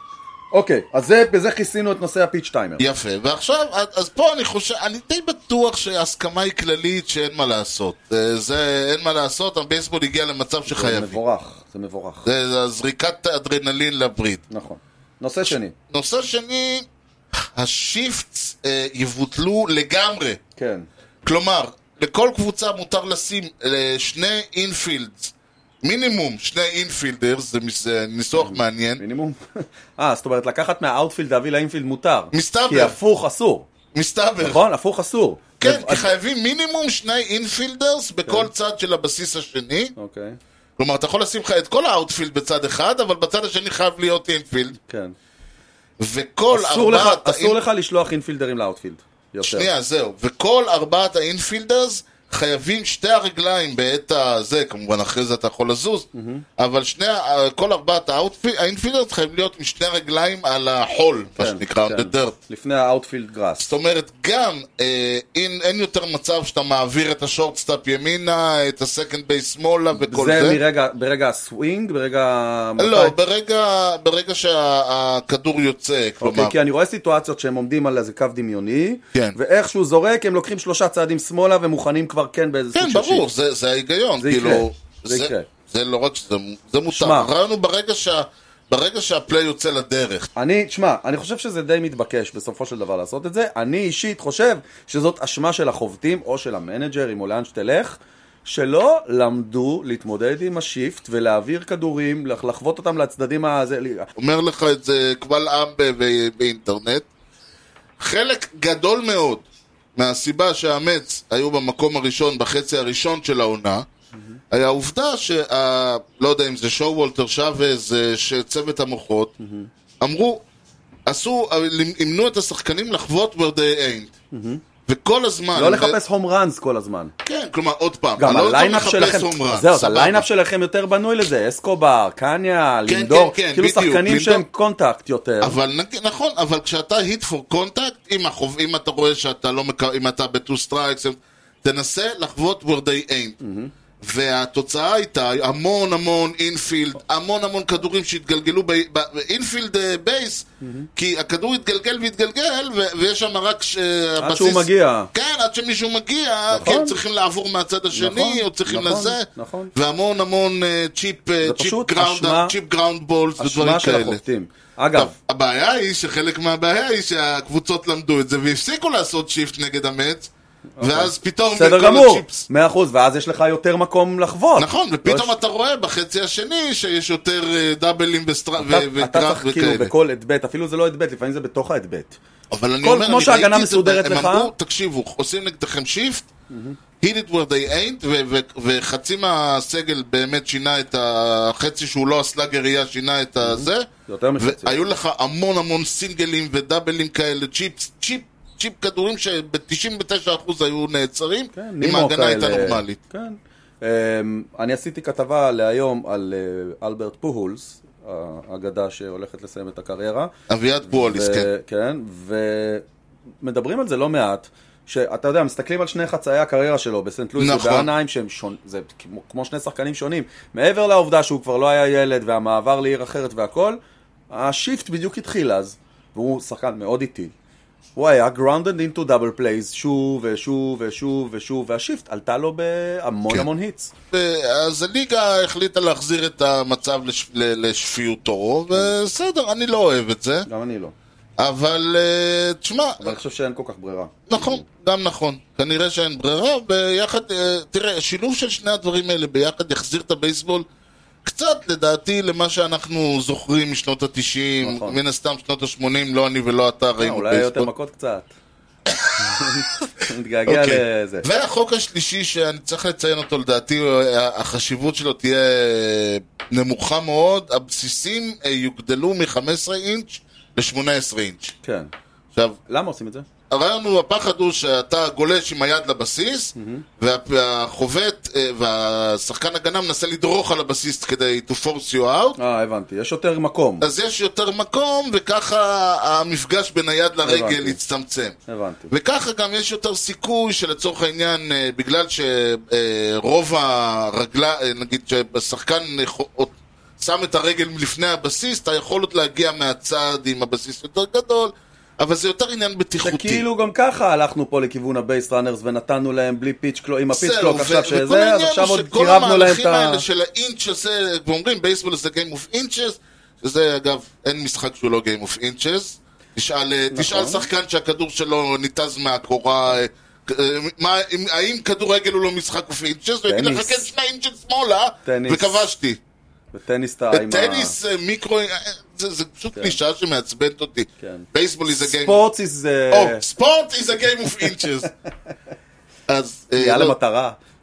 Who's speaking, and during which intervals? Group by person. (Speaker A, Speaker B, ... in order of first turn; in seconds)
Speaker A: 0.5-2.8, 10.7-12.3, 14.5-15.7, 20.6-20.9, 28.4-33.7, 34.4-36.1, 40.0-40.4, 44.8-45.2, 46.5-49.7, 56.1-56.5, 61.4-63.7, 69.9-73.2, 76.2-83.3, 84.2-85.5, 86.9-87.3, 90.4-104.1, 114.1-114.4, 119.4-119.7, 124.3-124.6, 125.5-127.1, 128.2-135.6, 143.4-143.7, 150.6-150.9, 154.2-155.1, 156.5-157.0, 157.9-159.7, 161.4-162.5, 163.4-165.1, 170.8-175.3, 178.6-182.2, 182.8-184.5, 186.5-186.8, 193.4-194.8, 201.5-210.3, 210.9-212.8, 213.4-223.8, 224.3-227.3, 228.0-233.9, 240.5-240.9, 243.0-244.7, 254.6-255.0, 257.0-258.3, 259.2-261.2, 271.6-271.9, 272.7-273.3, 276.6-276.9, 282.4-283.9, 287.2-287.8, 288.5-288.9, 303.0-310.1, 316.9-317.5, 323.3-323.9, 325.0-325.7, 326.5-327.8, 331.0-331.3, 331.8-333.2, 336.6-337.4
Speaker B: 2.8-11.2, 12.2-14.4, 15.9-16.9, 17.6-20.4, 21.2-29.0, 32.3-33.0, 33.9-34.6, 35.6-39.9, 40.8-44.8, 46.0-47.6, 49.4-56.1, 56.6-62.4, 63.6-70.6, 72.8-76.5, 82.7-90.3, 104.2-107.1, 108.0-109.4, 110.0-113.8, 114.5-119.3, 120.0-120.4, 121.1-124.1, 124.9-126.0, 127.2-130.3, 132.9-134.4, 135.4-143.4, 144.0-164.2, 164.9-170.3, 170.8-172.5, 174.6-179.9, 182.5-186.3, 187.0-193.9, 194.4-203.0, 210.5-211.5, 217.4-217.9, 234.1-240.5, 241.4-243.2, 244.3-250.7, 251.2-257.7, 259.0-259.5, 260.5-271.5, 273.5-282.4, 283.8-288.4, 288.9-303.4, 307.1-326.0, 327.1-332.2, 332.9-334.9, 336.1-337.0